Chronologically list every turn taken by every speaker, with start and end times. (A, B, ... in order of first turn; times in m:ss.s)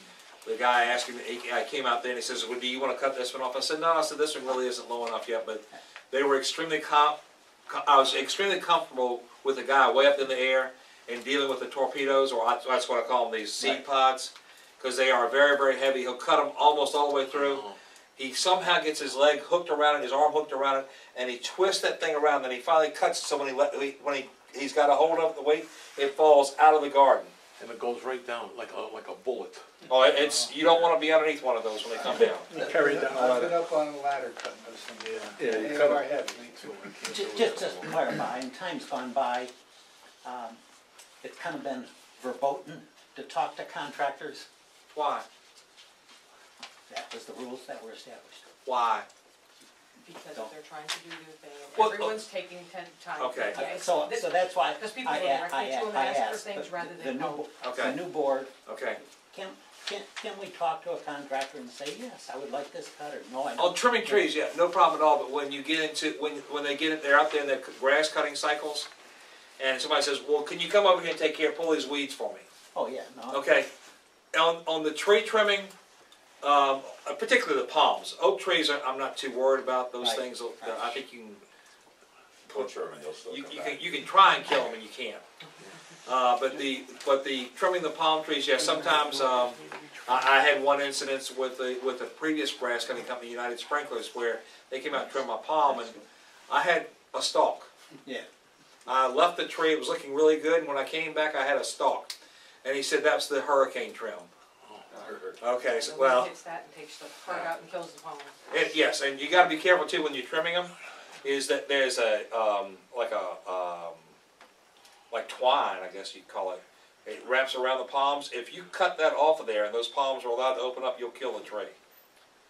0:00.4-0:27.3 A
0:17.3-0:17.8 B
0:27.6-0:29.7 B
0:29.9-0:33.6 A
0:32.0-0:36.9 C
0:35.1-0:38.0 B
0:37.1-0:39.5 D
0:40.2-0:40.6 D
0:41.2-0:44.5 D
0:44.9-0:45.2 A
0:46.9-0:48.5 D
0:48.6-0:49.1 A
0:50.0-0:57.5 E
0:51.7-0:52.2 A
0:53.2-0:53.6 A
0:53.5-1:04.3 D
0:57.6-0:58.0 A
0:58.6-0:59.0 A
1:03.6-1:08.9 A
1:09.6-1:12.4 A
1:12.7-1:13.4 D
1:13.3-1:13.7 A
1:14.3-1:15.7 A
1:16.4-1:21.4 A
1:20.0-1:21.0 D
1:22.5-1:24.0 F
1:23.2-1:25.2 A
1:26.0-1:37.7 A
1:28.7-1:30.2 B
1:38.8-1:44.3 A
1:44.6-1:45.1 B
1:44.9-1:45.4 F
1:45.4-1:46.3 A
1:45.7-1:48.3 E
1:48.5-1:50.7 A
1:51.2-1:54.1 A
1:55.1-2:01.7 A